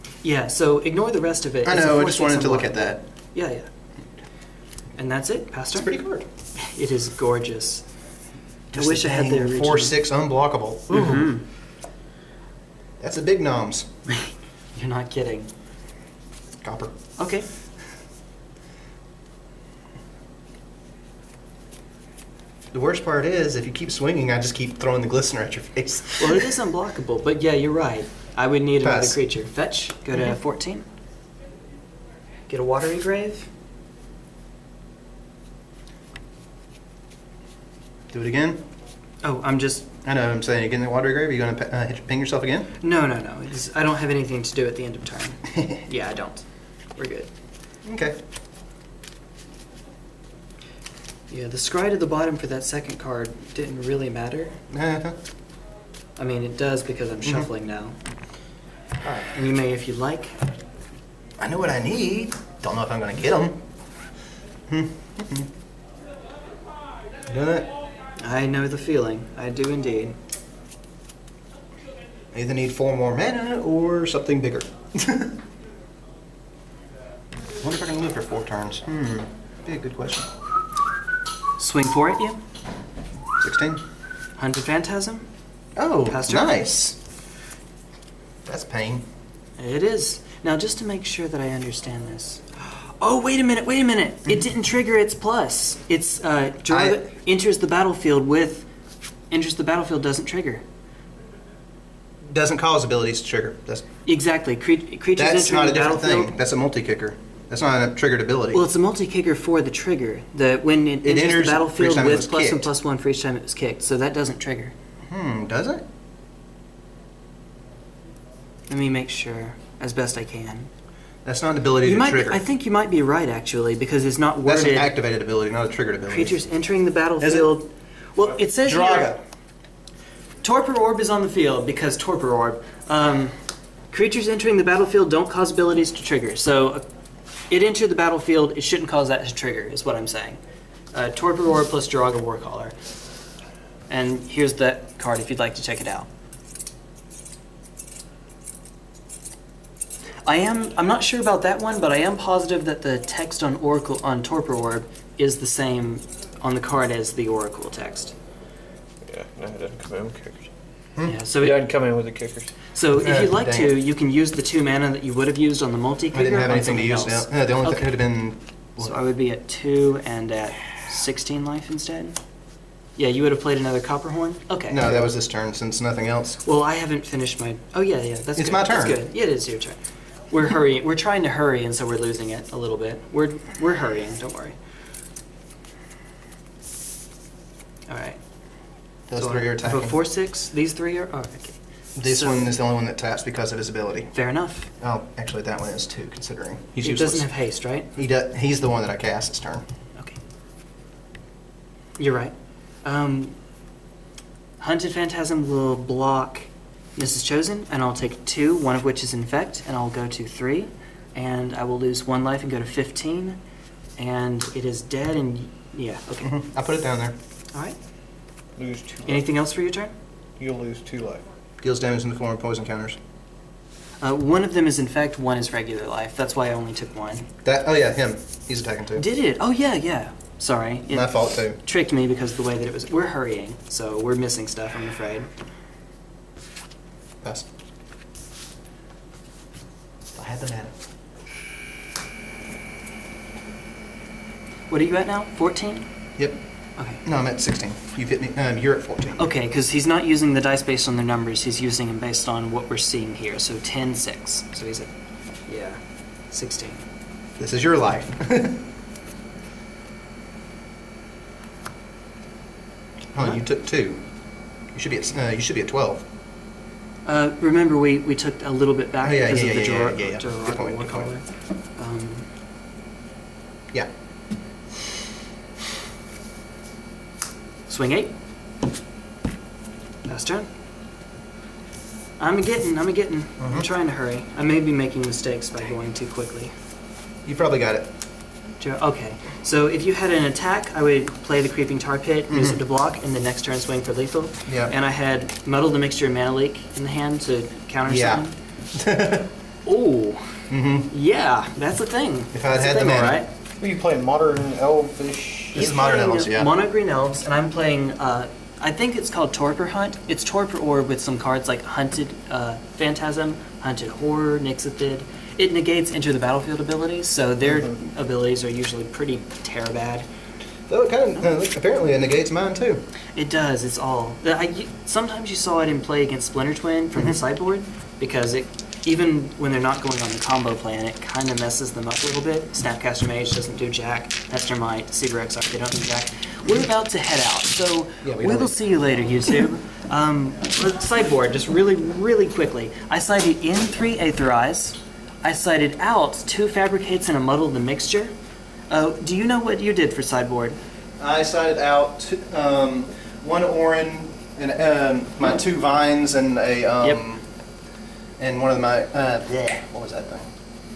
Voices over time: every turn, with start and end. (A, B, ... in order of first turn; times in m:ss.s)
0:00.2-0:03.7 A
0:01.6-0:03.0 B
0:05.0-0:05.9 A
0:05.7-0:06.2 B
0:06.6-0:07.8 A
0:08.7-0:11.3 B
0:08.7-0:10.0 A
0:10.9-0:11.4 A
0:13.0-0:13.9 B
0:14.1-0:15.5 A
0:16.6-0:17.0 B
0:17.2-0:17.5 A
0:22.7-0:26.5 B
0:26.2-0:30.8 A
0:28.8-0:29.2 B
0:32.5-0:33.5 A
0:38.1-0:38.6 B
0:39.2-0:39.9 A
0:40.0-0:42.7 B
0:42.8-0:47.3 A
0:47.8-0:48.2 B
0:51.3-0:54.6 A
0:54.7-0:55.2 B
0:56.2-0:57.9 A
0:59.0-1:00.4 A
1:01.4-1:03.6 B
1:04.7-1:05.5 B
1:07.3-1:07.7 B
1:08.2-1:10.2 A
1:12.3-1:15.3 B
1:17.6-1:20.3 B
1:21.6-1:22.4 A
1:23.4-1:23.8 B
1:24.4-1:25.3 A
1:25.8-1:27.0 B
1:26.1-1:26.6 A
1:28.4-1:29.0 B
1:29.6-1:38.7 A
1:36.7-1:37.0 B
1:39.3-1:40.6 A
1:42.3-1:43.8 B
1:44.0-1:46.3 A
1:45.2-1:48.6 B
1:48.5-1:54.7 A
1:51.0-1:52.7 B
1:55.1-1:55.8 B
1:58.7-2:00.7 A
2:01.2-2:02.4 B
2:01.8-2:04.9 A
2:04.4-2:06.4 B
2:06.1-2:09.1 A
2:07.2-2:07.5 B
2:08.6-2:09.2 B
2:10.4-2:13.4 A
2:13.9-2:16.8 A
2:17.5-2:20.4 A
2:20.9-2:22.7 A
2:23.9-2:26.1 A
2:30.2-2:38.1 A
2:39.0-2:40.5 C
2:41.0-2:41.6 A
2:41.4-2:42.5 C
2:42.7-2:48.0 A
2:43.0-2:43.8 B
2:46.1-2:48.9 B
2:48.8-2:52.2 A
2:53.0-2:54.8 A
2:54.7-2:56.4 B
2:56.4-2:59.8 A
2:58.4-2:59.0 B
3:00.3-3:04.6 A
3:07.9-3:08.2 A
3:09.1-3:10.0 B
3:09.2-3:12.5 A
3:12.0-3:14.1 B
3:14.1-3:14.7 A
3:14.8-3:17.3 B
3:16.8-3:17.9 A
3:17.9-3:19.6 B
3:22.0-3:23.3 A
3:24.6-3:33.4 A
3:34.0-3:36.4 A
3:36.2-3:37.1 B
3:38.6-3:39.3 C
3:39.0-3:39.9 A
3:40.4-3:41.2 C
3:41.6-3:43.0 B
3:44.0-3:47.3 A
3:47.4-3:49.0 B
3:49.0-3:55.3 A
3:50.9-3:51.6 B
4:00.1-4:00.7 B
4:04.7-4:05.9 A
4:06.8-4:07.0 A
4:07.0-4:09.2 B
4:09.2-4:14.9 A
4:15.5-4:15.8 A
4:16.3-4:16.8 A
4:17.4-4:18.6 B
4:23.1-4:24.0 B
4:24.7-4:26.0 B
4:27.0-4:31.2 A
4:29.0-4:31.1 B
4:31.8-4:32.2 A
4:37.7-4:38.1 A
4:40.0-4:40.5 A
4:42.2-4:46.5 A
4:43.4-4:43.7 B
4:47.2-4:47.9 B
4:48.6-4:58.3 A
4:52.3-4:52.6 B
4:54.5-4:54.7 B
4:57.9-4:59.3 B
4:59.6-5:00.2 A
5:00.5-5:00.9 B
5:00.9-5:03.3 A
5:02.3-5:03.2 B
5:03.6-5:05.6 C
5:05.5-5:06.5 B
5:05.5-5:20.1 A
5:17.4-5:17.7 B
5:20.7-5:22.8 B
5:23.2-5:48.1 A
5:38.0-5:38.6 B
5:48.7-5:50.6 A
5:51.0-5:57.2 B
5:58.2-6:00.3 B